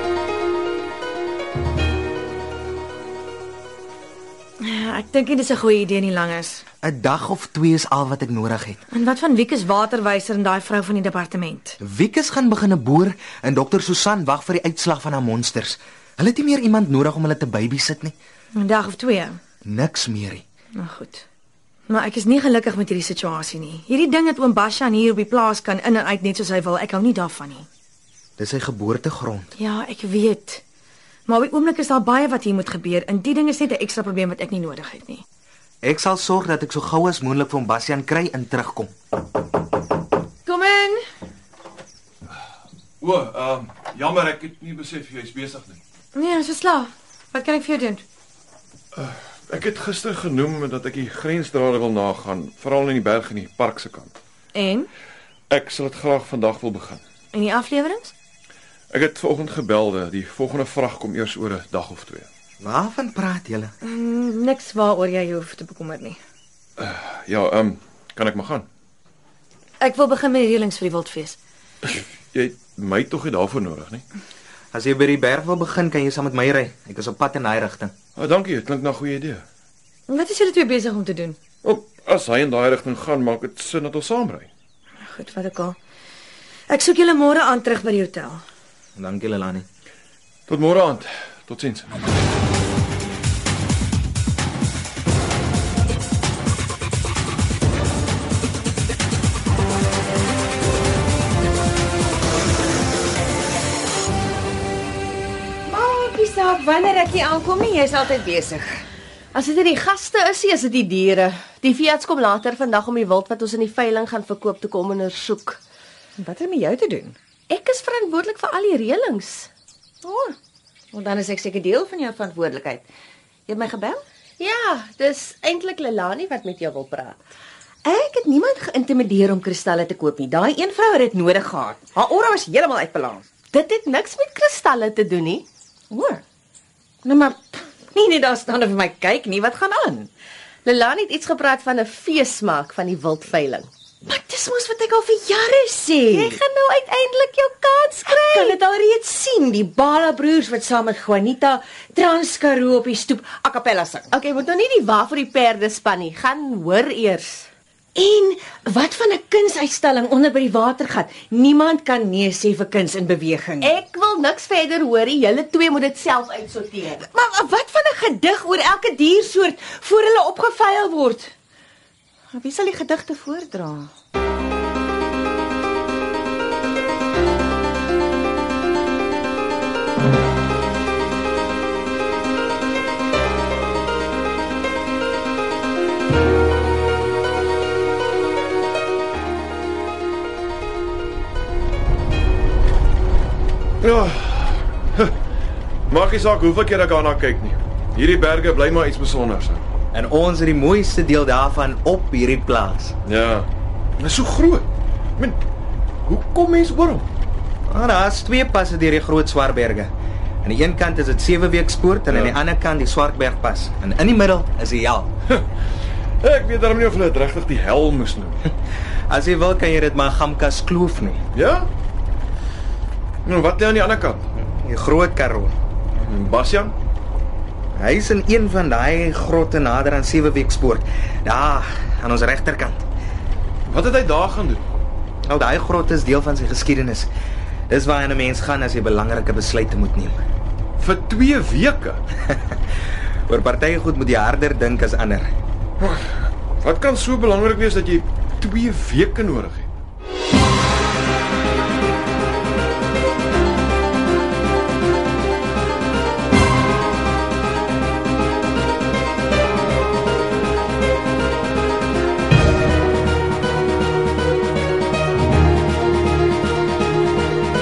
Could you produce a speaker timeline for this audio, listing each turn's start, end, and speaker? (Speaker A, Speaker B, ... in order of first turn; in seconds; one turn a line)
Speaker A: 4.6-6.6
Speaker B: 6.8-8.8
Speaker A: 8.9-11.8
Speaker B: 11.8-18.1
Speaker A: 18.5-19.4
Speaker B: 19.6-20.4
Speaker A: 20.8-21.2
Speaker A: 21.9-27.7
Speaker B: 28.4-29.5
Speaker A: 29.6-30.6
Speaker A: 31.3-35.2
Speaker B: 35.8-38.9
Speaker A: 40.5-41.0
Speaker C: 43.0-45.8
Speaker A: 46.1-48.0
Speaker C: 48.9-54.1
Speaker A: 54.5-54.9
Speaker C: 55.5-57.0
Speaker A: 57.3-58.1
Speaker C: 58.9-62.3
Speaker B: 62.6-63.7
Speaker A: 63.8-66.2
Speaker C: 66.8-68.6
Speaker A: 69.8-71.4
Speaker C: 71.8-74.0
Speaker B: 74.7-77.9
Speaker C: 78.2-79.4
Speaker A: 80.1-81.4
Speaker C: 81.6-84.5
Speaker A: 85.0-85.8
Speaker A: 86.7-88.4
Speaker B: 89.0-89.7
Speaker C: 90.5-91.9
Speaker D: 105.7-108.8
Speaker E: 109.3-115.6
Speaker D: 116.2-117.1
Speaker E: 117.5-119.5
Speaker D: 120.0-120.3
Speaker D: 120.9-122.8
Speaker D: 123.5-124.0
Speaker E: 124.4-127.2
Speaker D: 127.8-133.3
Speaker E: 133.5-135.4
Speaker D: 135.9-136.2
Speaker D: 137.0-140.1
Speaker E: 140.6-143.7
Speaker D: 144.1-146.4
Speaker E: 146.1-148.6
Speaker D: 147.1-147.3
Speaker D: 148.0-154.1
Speaker E: 154.1-157.5
Speaker D: 157.9-163.7
Speaker E: 163.6-167.0
Speaker D: 167.1-171.3
Speaker D: 172.3-173.9
Speaker C: 193.8-195.1
Speaker C: 195.9-199.6
Speaker B: 199.9-202.9
Speaker C: 203.0-203.5
Speaker C: 204.0-205.4
Speaker C: 206.1-207.1
Speaker B: 207.7-209.9
Speaker B: 210.4-215.1
Speaker C: 212.1-212.4
Speaker C: 216.2-218.4
Speaker B: 219.1-221.2
Speaker C: 221.3-221.7
Speaker C: 223.2-224.3
Speaker B: 224.3-225.5
Speaker C: 225.9-226.7
Speaker B: 227.8-232.8
Speaker C: 233.7-234.6
Speaker B: 235.3-237.1
Speaker B: 237.7-240.2
Speaker C: 240.8-242.0
Speaker B: 242.3-242.6
Speaker B: 243.3-245.3
Speaker C: 245.8-246.1
Speaker C: 246.6-249.7